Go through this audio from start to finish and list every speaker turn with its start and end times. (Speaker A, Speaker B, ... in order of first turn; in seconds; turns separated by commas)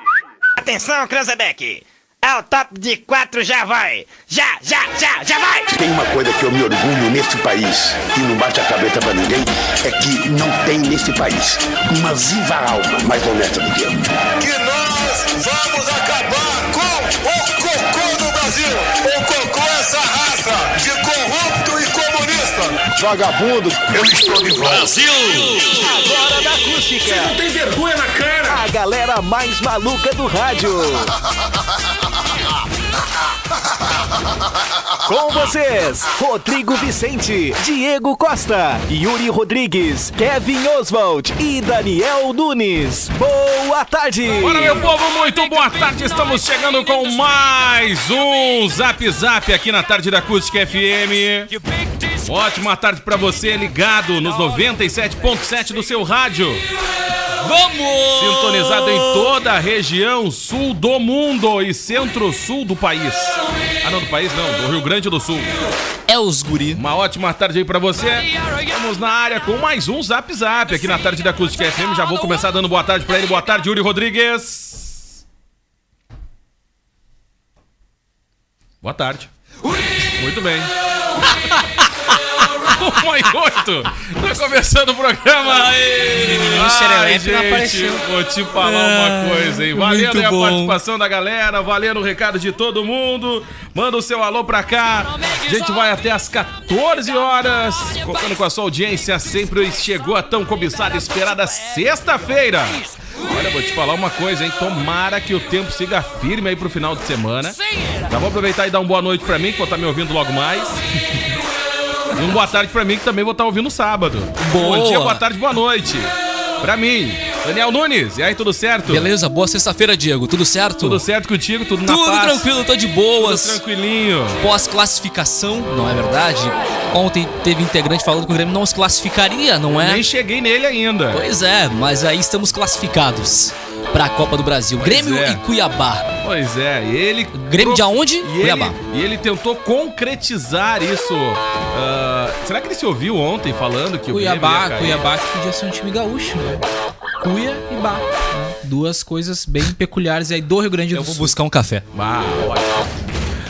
Speaker A: 0.6-5.7, Speaker B: 5.7-14.2, Speaker C: 14.4-22.9, Speaker D: 23.0-24.9, Speaker C: 23.9-25.7, Speaker D: 25.7-27.4, Speaker E: 27.1-28.6, Speaker D: 28.4-31.1, Speaker D: 35.0-44.9, Speaker E: 44.4-51.5, Speaker E: 52.2-56.6, Speaker F: 57.4-59.2, Speaker E: 58.1-65.5, Speaker F: 66.1-66.8, Speaker E: 66.7-75.0, Speaker E: 78.8-79.3, Speaker E: 80.2-80.7, Speaker E: 82.7-107.6, Speaker F: 85.5-88.0, Speaker F: 88.6-90.8, Speaker E: 108.1-110.8, Speaker E: 112.1-119.1, Speaker F: 114.4-115.2, Speaker F: 118.8-121.0, Speaker E: 120.8-122.5, Speaker F: 121.8-123.6, Speaker E: 123.2-124.4, Speaker F: 124.4-130.0, Speaker E: 129.7-131.3, Speaker F: 131.1-136.1, Speaker E: 134.8-135.4, Speaker E: 136.2-145.1, Speaker F: 137.3-138.8, Speaker G: 144.1-146.6, Speaker G: 147.2-151.3, Speaker F: 150.9-151.8, Speaker E: 151.9-152.8